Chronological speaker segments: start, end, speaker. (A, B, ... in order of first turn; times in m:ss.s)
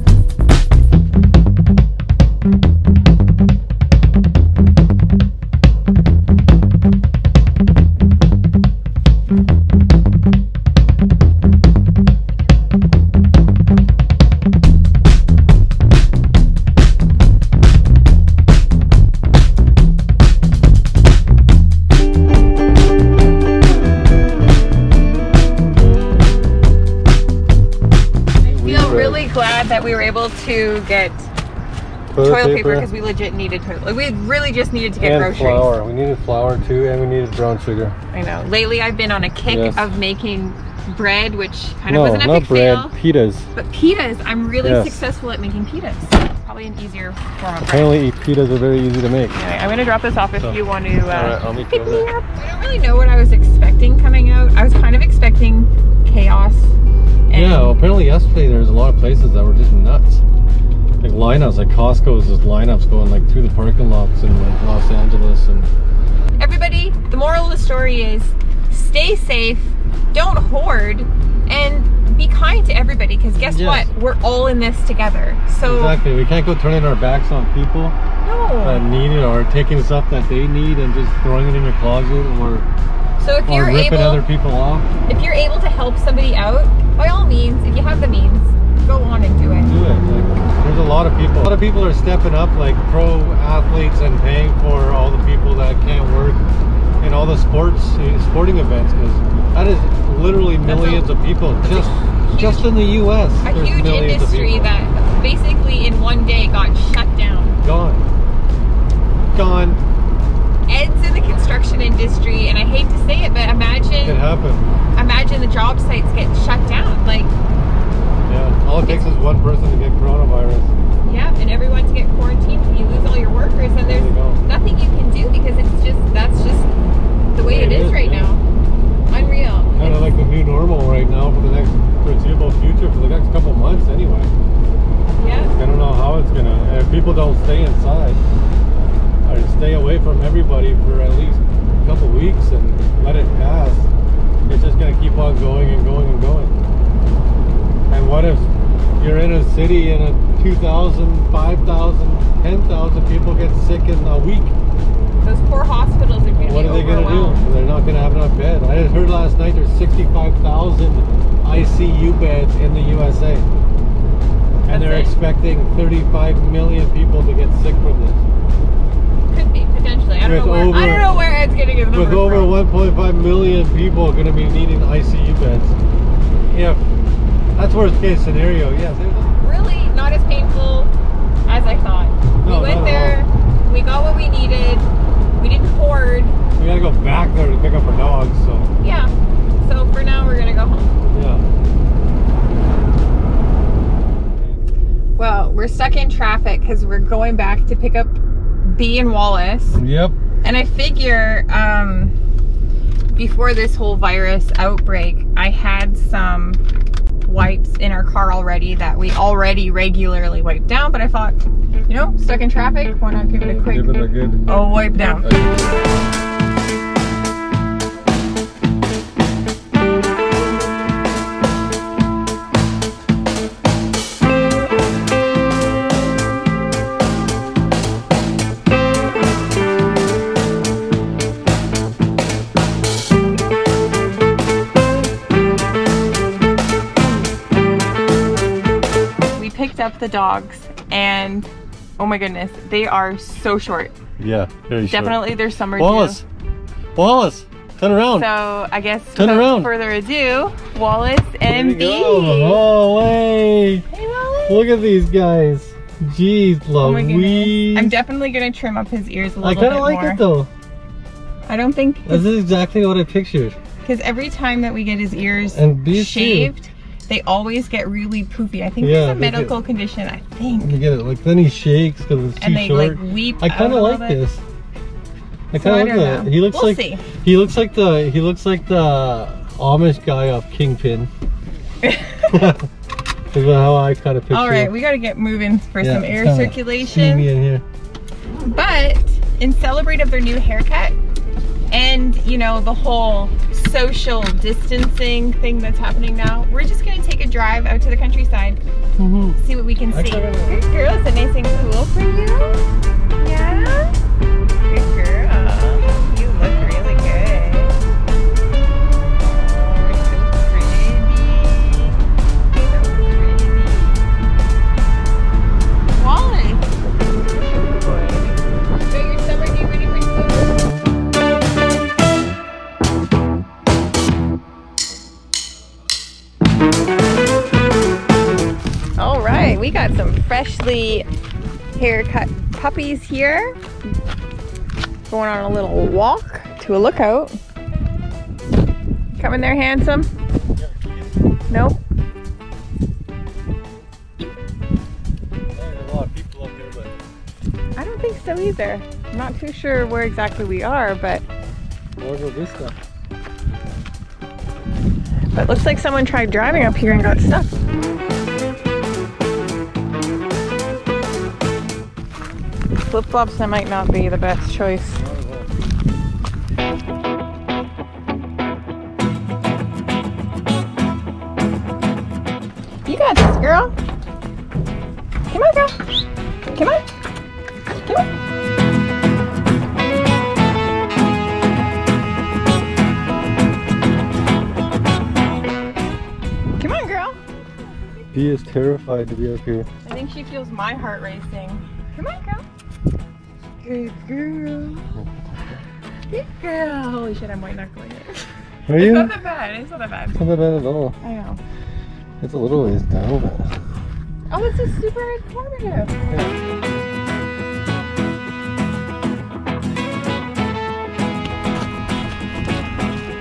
0:28.4-0:29.2 A
0:28.4-0:31.3 B
0:32.1-0:32.9 A
0:32.2-0:35.8 B
0:35.0-0:38.0 A
0:38.1-0:43.0 B
0:39.5-0:39.9 A
0:41.9-0:43.5 A
0:43.5-0:48.0 B
0:44.6-0:45.0 A
0:47.6-0:49.4 A
0:49.4-0:56.8 B
0:50.4-0:52.1 A
0:57.3-0:57.7 B
0:57.3-1:00.2 A
1:01.0-1:05.7 A
1:06.4-1:16.0 B
1:13.5-1:13.9 A
1:15.6-1:18.0 A
1:18.2-1:18.9 B
1:18.6-1:22.7 A
1:23.2-1:24.2 B
1:23.5-1:24.9 A
1:25.1-1:29.7 B
1:29.6-1:36.4 A
1:37.0-1:44.7 A
1:40.6-1:42.8 B
1:43.4-1:47.6 B
1:47.6-1:48.1 A
1:49.3-1:49.8 A
1:50.7-1:54.2 B
1:54.0-1:54.7 A
1:55.0-1:57.3 B
1:58.3-2:00.7 A
1:58.8-1:59.2 B
2:01.0-2:06.7 B
2:03.8-2:04.4 A
2:07.3-2:08.4 B
2:07.4-2:08.4 A
2:09.1-2:10.2 B
2:09.8-2:14.3 A
2:15.2-2:15.6 B
2:15.3-2:18.2 A
2:19.2-2:23.9 A
2:24.5-2:26.6 A
2:27.9-2:34.6 A
2:35.2-2:37.4 B
2:36.4-2:43.5 A
2:44.7-2:48.2 A
2:44.7-2:45.2 B
2:49.3-2:52.6 B
2:50.2-2:51.2 A
2:51.9-2:55.8 A
2:56.5-2:56.8 A
2:57.6-2:59.4 A
2:59.4-3:00.9 B
3:01.5-3:06.4 B
3:02.4-3:03.2 A
3:06.6-3:08.7 A
3:08.8-3:11.0 B
3:11.1-3:11.4 A
3:15.2-3:19.8 B
3:19.7-3:20.2 A
3:20.4-3:22.1 B
3:23.2-3:26.6 B
3:27.3-3:35.3 B
3:33.4-3:34.5 A
3:35.1-3:35.8 A
3:59.4-4:03.9 B
4:04.2-4:05.2 A
4:04.9-4:06.2 B
4:05.8-4:06.2 A
4:07.0-4:08.3 A
4:08.1-4:12.6 B
4:09.2-4:09.7 A
4:11.5-4:13.9 A
4:13.9-4:14.6 B
4:14.5-4:17.9 A
4:16.8-4:20.2 B
4:19.4-4:20.5 A
4:21.5-4:22.3 B
4:22.1-4:23.6 A
4:23.8-4:30.8 B
4:25.5-4:26.5 A
4:28.8-4:29.6 A
4:30.6-4:34.4 A
4:32.4-4:34.2 B
4:35.5-4:41.1 A
4:35.5-4:37.0 B
4:41.8-4:42.6 B
4:42.3-4:42.7 A
4:43.3-4:44.7 A
4:44.3-4:47.3 B
4:45.8-4:47.6 A
4:48.4-4:51.0 B
4:51.7-4:58.6 B
4:59.0-5:00.6 A
4:59.4-5:02.6 B
5:03.2-5:04.0 B
5:04.7-5:07.8 B
5:09.2-5:14.0 B
5:16.0-5:16.7 B
5:17.3-5:20.6 B
5:29.0-5:31.1 B
5:31.8-5:33.6 B
5:35.1-5:37.4 B
5:39.2-5:40.1 B
5:40.6-5:41.2 A
5:41.5-5:41.8 B
5:45.5-5:46.9 A
5:47.8-5:51.2 B
5:52.0-5:52.8 A
5:55.3-5:57.6 B
6:02.9-6:05.0 B
6:04.9-6:05.5 A
6:12.9-6:13.7 B
6:15.3-6:15.8 B
6:16.5-6:16.9 B
6:26.6-6:27.2 B
6:28.1-6:29.7 A
6:29.8-6:32.4 B
6:33.6-6:35.0 B
6:36.1-6:40.2 B
6:38.7-6:39.1 A
6:40.1-6:41.0 A
6:41.0-6:41.4 B
6:42.2-6:43.6 A
6:44.3-6:46.0 B